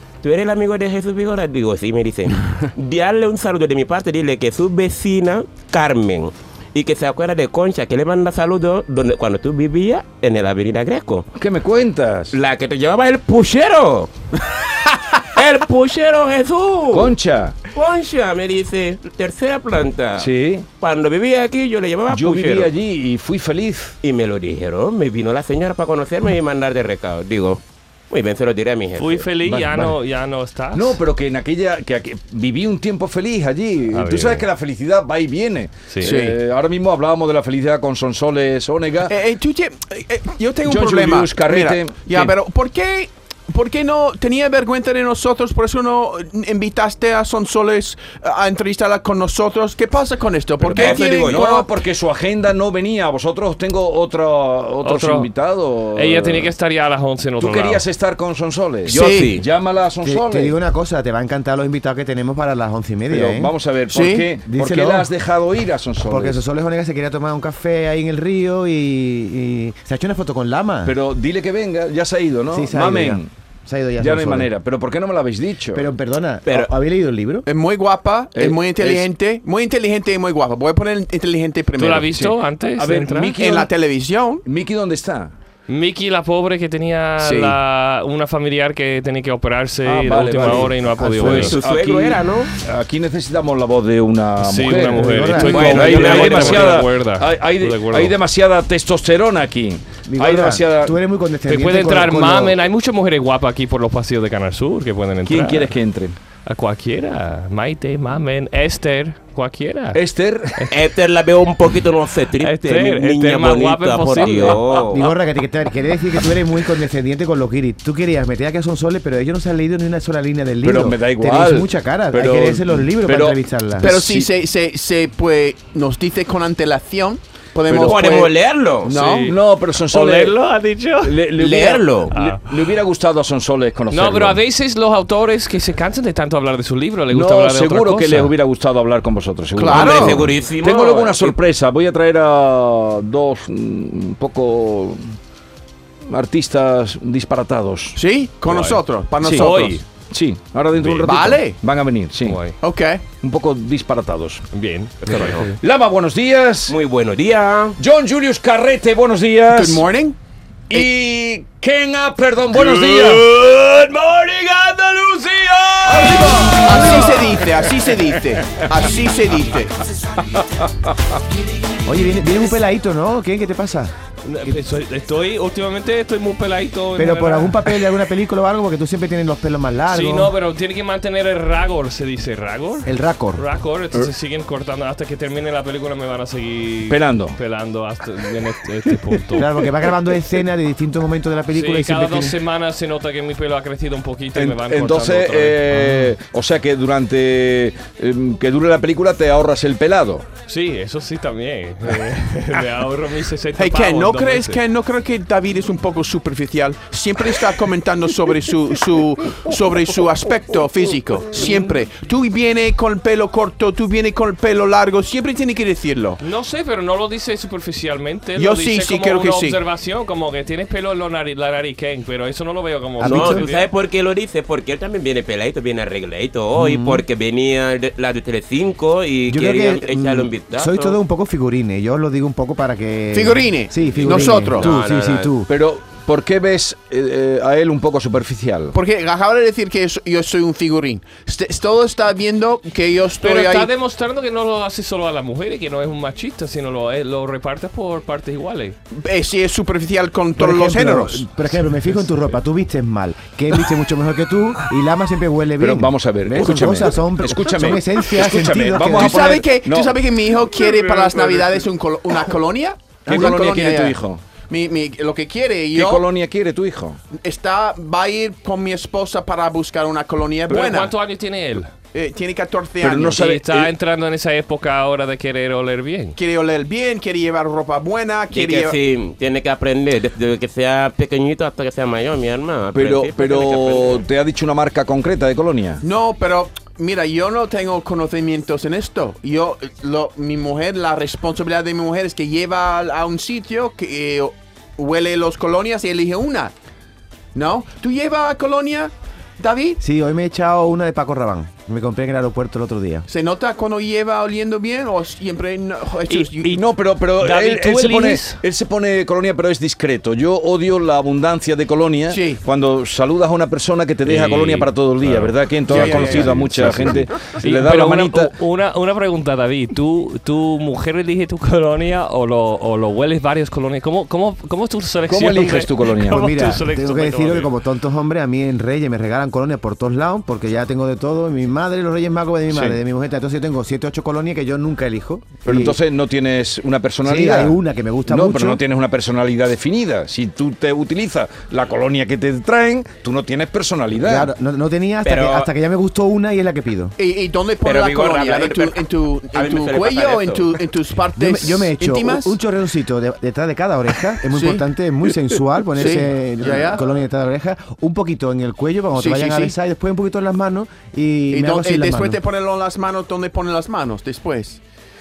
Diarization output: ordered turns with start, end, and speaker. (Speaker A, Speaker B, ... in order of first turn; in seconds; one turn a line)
Speaker A: 0.2-11.3
Speaker B: 11.3-12.3
Speaker A: 12.3-17.1
Speaker B: 16.9-17.6
Speaker A: 17.7-20.3
Speaker B: 20.2-20.6
Speaker A: 20.8-22.7
Speaker B: 22.1-23.9
Speaker A: 24.0-29.3
Speaker C: 29.0-31.0
Speaker B: 29.4-30.0
Speaker B: 30.7-39.1
Speaker C: 33.9-34.5
Speaker D: 36.0-36.4
Speaker D: 39.1-51.7
Speaker B: 40.6-42.3
Speaker B: 50.6-56.5
Speaker A: 50.7-51.5
Speaker C: 54.8-55.3
Speaker C: 55.9-57.8
Speaker B: 57.4-60.5
Speaker A: 58.9-59.4
Speaker D: 58.9-59.4
Speaker E: 60.0-63.5
Speaker B: 63.1-66.4
Speaker D: 63.9-64.3
Speaker E: 64.4-65.1
Speaker E: 66.0-70.9
Speaker B: 70.8-73.3
Speaker E: 72.5-74.5
Speaker B: 74.0-75.9
Speaker E: 75.7-77.5
Speaker A: 76.5-76.7
Speaker D: 77.4-82.1
Speaker B: 78.3-79.1
Speaker C: 81.8-83.3
Speaker B: 82.1-83.7
Speaker D: 83.3-84.4
Speaker B: 84.4-85.3
Speaker C: 85.7-91.6
Speaker D: 87.2-87.5
Speaker B: 89.8-101.0
Speaker A: 91.2-92.5
Speaker C: 94.4-98.2
Speaker E: 95.0-96.0
Speaker A: 95.4-96.8
Speaker E: 100.1-102.5
Speaker C: 101.5-105.8
Speaker B: 105.2-106.2
Speaker C: 106.5-110.0
Speaker B: 109.9-110.6
Speaker A: 110.7-115.1
Speaker C: 112.4-114.6
Speaker B: 114.2-114.5
Speaker E: 114.8-123.9
Speaker B: 120.6-124.3
Speaker D: 123.8-129.4
Speaker A: 127.7-129.0
Speaker C: 128.9-129.4
Speaker B: 129.2-130.4
Speaker C: 129.9-131.2
Speaker B: 131.0-134.4
Speaker A: 131.4-132.1
Speaker C: 132.1-132.5
Speaker C: 133.9-138.3
Speaker B: 137.1-145.1
Speaker D: 139.6-140.3
Speaker A: 139.6-141.4
Speaker B: 146.1-148.0
Speaker D: 147.9-149.7
Speaker C: 148.5-149.8
Speaker B: 149.2-152.5
Speaker C: 150.8-151.1
Speaker D: 151.0-151.6
Speaker C: 152.2-152.6
Speaker D: 152.6-153.0
Speaker B: 153.2-154.4
Speaker C: 154.5-155.4
Speaker A: 155.0-155.5
Speaker B: 155.1-156.8
Speaker A: 156.7-157.8
Speaker B: 157.8-159.8
Speaker D: 159.5-160.2
Speaker B: 160.7-168.7
Speaker D: 165.9-169.8
Speaker B: 170.2-171.2
Speaker E: 171.8-173.9
Speaker C: 174.2-177.7
Speaker E: 176.9-180.3
Speaker C: 179.9-189.5
Speaker E: 182.8-183.4
Speaker B: 186.9-187.4
Speaker E: 189.4-192.4
Speaker C: 191.5-196.1
Speaker B: 194.3-200.2
Speaker C: 200.5-204.6
Speaker D: 203.6-216.2
Speaker C: 211.4-211.7
Speaker C: 216.2-223.7
Speaker D: 218.3-219.6
Speaker E: 223.0-223.5
Speaker A: 223.0-231.0
Speaker E: 226.5-227.0
Speaker E: 229.3-235.5
Speaker D: 233.1-234.7
Speaker A: 233.8-235.3
Speaker B: 235.5-238.7
Speaker D: 238.7-243.7
Speaker C: 243.2-248.8
Speaker D: 248.9-251.3
Speaker E: 250.4-259.4
Speaker B: 255.6-260.0
Speaker D: 258.9-266.1
Speaker B: 263.0-264.2
Speaker B: 265.7-267.0
Speaker D: 267.2-270.9
Speaker C: 270.5-271.7
Speaker D: 271.9-273.3
Speaker B: 272.8-273.7
Speaker C: 273.1-276.2
Speaker D: 276.2-278.8
Speaker A: 278.3-284.0
Speaker B: 282.7-285.8
Speaker D: 285.8-296.5
Speaker D: 297.3-299.8
Speaker E: 299.8-303.1
Speaker D: 303.1-306.6
Speaker C: 306.1-306.5
Speaker B: 306.5-318.3
Speaker C: 307.2-308.4
Speaker D: 312.1-312.4
Speaker C: 314.0-327.5
Speaker D: 315.7-316.9
Speaker B: 325.1-326.5
Speaker E: 326.1-335.8
Speaker B: 332.5-332.8
Speaker B: 335.4-344.3
Speaker E: 337.0-338.6
Speaker E: 344.0-346.9
Speaker A: 345.0-345.5
Speaker D: 347.0-352.4
Speaker A: 347.6-348.8
Speaker A: 349.3-350.6
Speaker E: 351.1-362.2
Speaker D: 354.3-354.6
Speaker D: 355.8-356.8
Speaker D: 358.9-359.5
Speaker D: 361.3-364.6